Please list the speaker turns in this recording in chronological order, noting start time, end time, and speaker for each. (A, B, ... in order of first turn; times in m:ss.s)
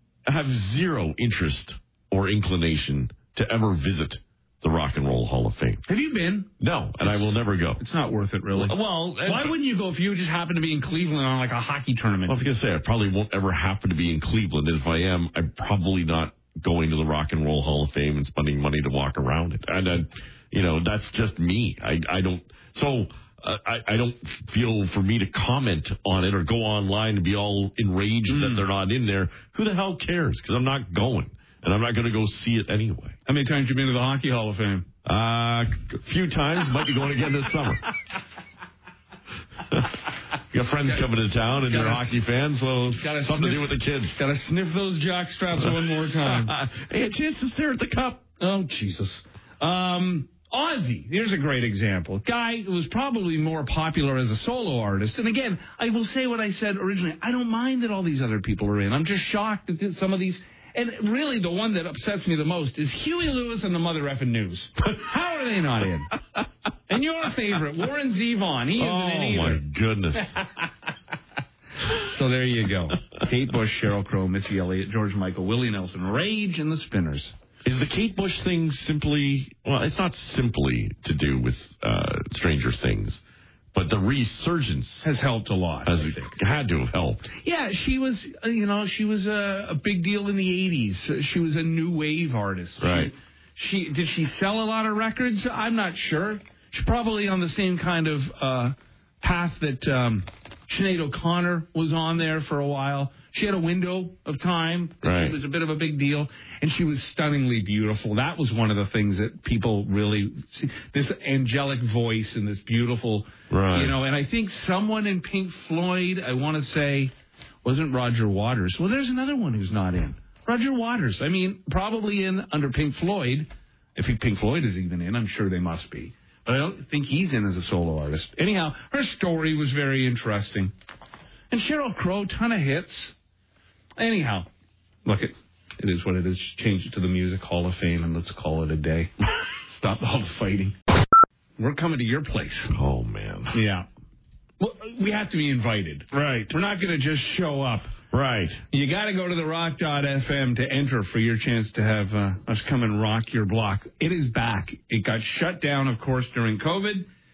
0:00.2-0:05.8 A
0:05.9-0:06.5 B
0:06.6-0:07.8 A
0:07.0-0:12.4 B
0:08.5-0:09.6 A
0:12.3-0:33.2 A
0:28.3-0:28.6 B
0:33.3-0:34.9 B
0:35.0-0:37.8 A
0:39.7-0:44.2 A
0:41.6-0:42.2 B
0:43.0-0:46.6 B
0:45.6-0:48.2 A
0:48.4-1:06.2 B
1:06.9-1:09.6 B
1:08.8-1:10.4 A
1:11.8-1:17.3 B
1:17.6-1:23.2 A
1:23.7-1:25.1 A
1:25.0-1:26.3 B
1:25.9-1:27.3 A
1:27.4-1:57.1 B
1:32.8-1:33.1 A
1:45.0-1:45.4 A
1:53.5-1:54.0 A
1:57.6-2:10.7 B
2:11.5-2:13.2 B
2:14.0-2:14.5 B
2:15.0-2:20.8 B
2:21.6-2:22.8 B
2:22.7-2:23.6 A
2:23.5-2:23.9 B
2:24.6-2:27.9 B
2:28.1-2:28.6 A
2:28.7-2:37.1 B